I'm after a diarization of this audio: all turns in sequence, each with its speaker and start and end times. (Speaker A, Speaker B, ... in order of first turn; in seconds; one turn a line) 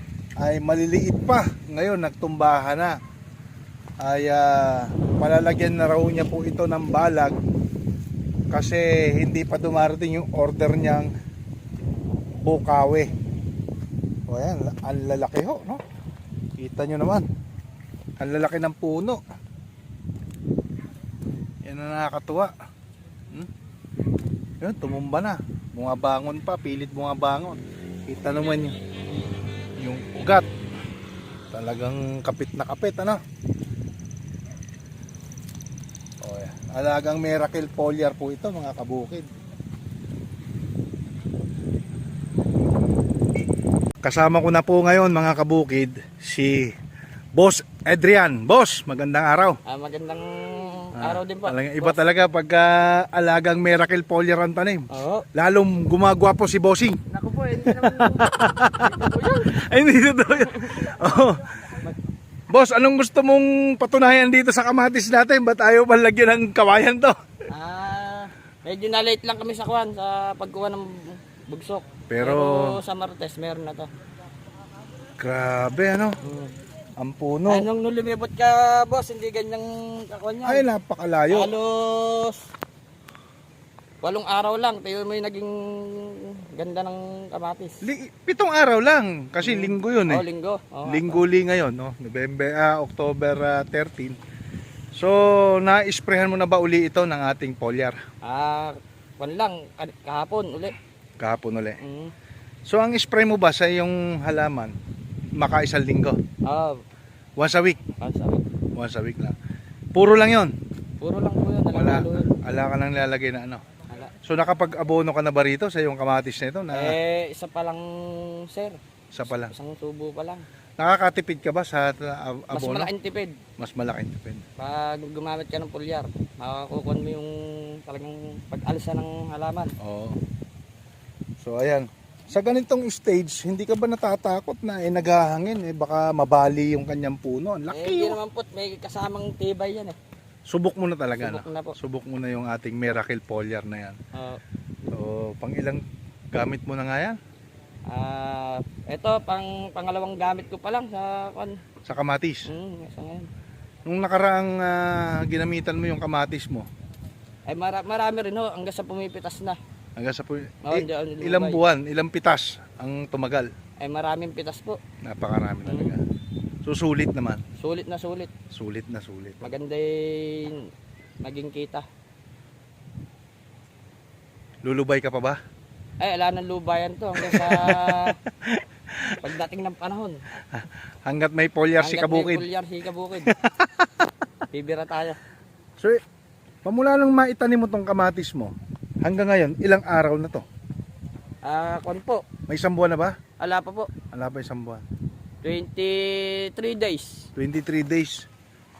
Speaker A: 0.4-3.0
Speaker A: 4.0-7.4
Speaker A: 8.5-11.1
Speaker A: 12.4-13.1
Speaker A: 14.3-15.8
Speaker A: 16.6-17.2
Speaker A: 18.2-19.2
Speaker A: 21.6-22.5
Speaker A: 24.6-28.7
Speaker A: 29.8-30.4
Speaker A: 31.5-33.2
Speaker A: 36.2-39.3
Speaker A: 44.0-46.7
Speaker A: 47.4-49.6
Speaker B: 49.6-52.0
Speaker A: 51.0-57.0
Speaker B: 54.9-55.3
Speaker B: 57.1-59.5
Speaker A: 57.6-61.6
Speaker B: 60.4-61.0
Speaker B: 61.6-61.9
Speaker A: 62.5-67.4
Speaker B: 67.5-73.9
Speaker A: 72.1-72.8
Speaker A: 75.2-76.2
Speaker B: 76.2-76.5
Speaker A: 77.0-77.7
Speaker B: 77.5-80.7
Speaker A: 80.4-81.5
Speaker B: 81.3-82.4
Speaker B: 84.0-87.8
Speaker A: 87.8-90.2
Speaker B: 89.4-91.2
Speaker A: 90.8-94.2
Speaker A: 94.9-98.0
Speaker B: 98.2-100.8
Speaker A: 101.2-101.8
Speaker B: 101.8-102.1
Speaker A: 102.7-104.7
Speaker A: 105.4-106.2
Speaker B: 106.4-106.8
Speaker A: 107.4-107.9
Speaker B: 108.0-108.4
Speaker A: 108.8-109.3
Speaker A: 109.9-110.5
Speaker B: 111.0-112.3
Speaker A: 111.7-113.6
Speaker B: 113.9-114.1
Speaker A: 114.2-117.0
Speaker B: 116.7-120.4
Speaker A: 119.1-119.5
Speaker A: 120.8-122.9
Speaker B: 122.5-123.4
Speaker A: 123.5-124.4
Speaker B: 124.6-129.7
Speaker A: 129.8-130.2
Speaker A: 131.4-138.2
Speaker B: 137.7-140.0
Speaker A: 140.5-144.0
Speaker B: 141.1-141.8
Speaker B: 144.1-144.4
Speaker A: 144.9-145.8
Speaker A: 146.3-147.2
Speaker B: 147.9-151.6
Speaker A: 151.8-152.5
Speaker B: 152.5-153.3
Speaker A: 153.9-156.7
Speaker B: 157.5-159.6
Speaker A: 159.9-163.5
Speaker B: 160.6-161.6
Speaker B: 163.8-164.8
Speaker A: 165.0-166.0
Speaker B: 165.6-165.9
Speaker A: 166.6-167.4
Speaker B: 167.6-168.3
Speaker A: 168.5-169.5
Speaker B: 169.4-170.7
Speaker B: 171.2-171.8
Speaker A: 174.6-175.4
Speaker B: 176.0-178.2
Speaker A: 177.2-179.1
Speaker B: 179.2-180.2
Speaker A: 180.5-182.4
Speaker B: 181.8-183.3
Speaker A: 183.3-183.9
Speaker B: 184.5-185.2
Speaker A: 186.6-190.4
Speaker B: 191.4-192.3
Speaker A: 192.4-193.2
Speaker B: 193.4-194.0
Speaker A: 194.0-194.8
Speaker B: 195.4-197.3
Speaker A: 197.3-198.3